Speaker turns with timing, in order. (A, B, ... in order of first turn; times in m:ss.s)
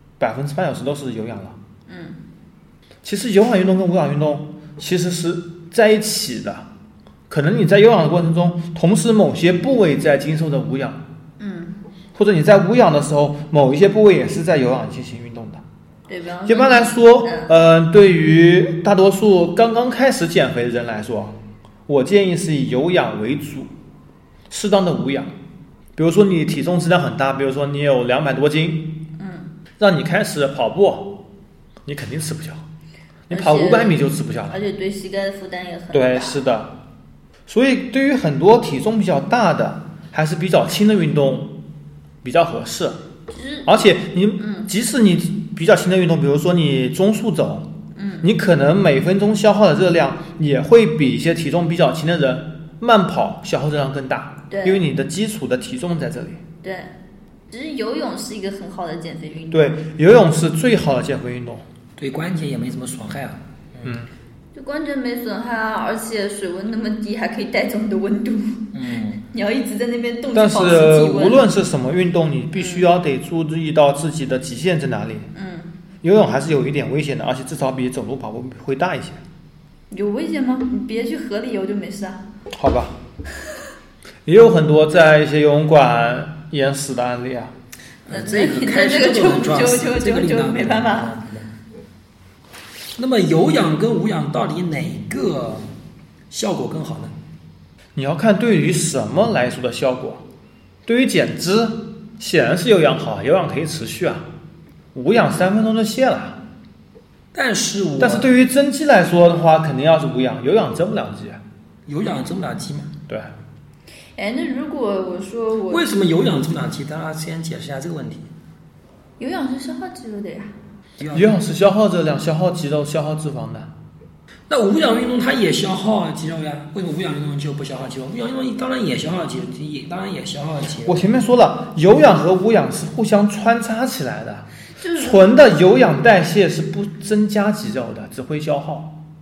0:00.2-0:01.6 A
0:01.9-0:02.2 B
0:03.0-0:06.7 A
0:07.3-0:11.0 A
0:11.4-0:11.8 B
0:12.2-0:15.6 A
0:16.1-0:17.5 B
0:16.5-0:23.7 A
0:24.5-0:25.3 A
0:26.0-0:28.9 A
0:29.2-0:29.5 B
0:29.8-0:31.1 A
0:31.9-0:32.6 A
0:33.3-0:34.6 A
0:33.3-0:36.4 B
0:35.9-0:36.7 A
0:37.5-0:41.5 A
0:42.2-0:43.0 A
0:43.3-0:43.8 B
0:43.7-0:47.7 A
0:44.4-0:44.7 B
0:48.0-0:48.3 B
0:48.2-0:56.4 A
0:54.5-0:54.8 B
0:56.6-0:56.9 B
0:57.5-0:59.8 B
0:59.5-1:01.6 A
1:02.0-1:04.0 C
1:03.8-1:04.1 A
1:04.5-1:08.6 B
1:08.7-1:09.2 C
1:09.2-1:11.4 B
1:10.3-1:15.3 A
1:12.6-1:12.9 B
1:15.3-1:15.7 B
1:16.0-1:19.2 A
1:19.9-1:22.2 B
1:22.5-1:23.0 A
1:24.3-1:27.5 A
1:28.1-1:31.1 B
1:28.1-1:31.5 C
1:33.0-1:35.7 C
1:36.3-1:37.1 C
1:38.0-1:40.2 A
1:40.9-1:44.3 A
1:44.9-1:46.4 A
1:47.3-1:48.3 C
1:48.0-1:51.4 A
1:51.9-1:52.9 C
1:54.2-1:55.9 B
1:55.7-1:58.3 C
1:59.2-2:00.5 B
2:01.0-2:01.4 C
2:01.1-2:03.7 A
2:04.5-2:11.0 C
2:10.8-2:18.9 A
2:14.8-2:15.2 B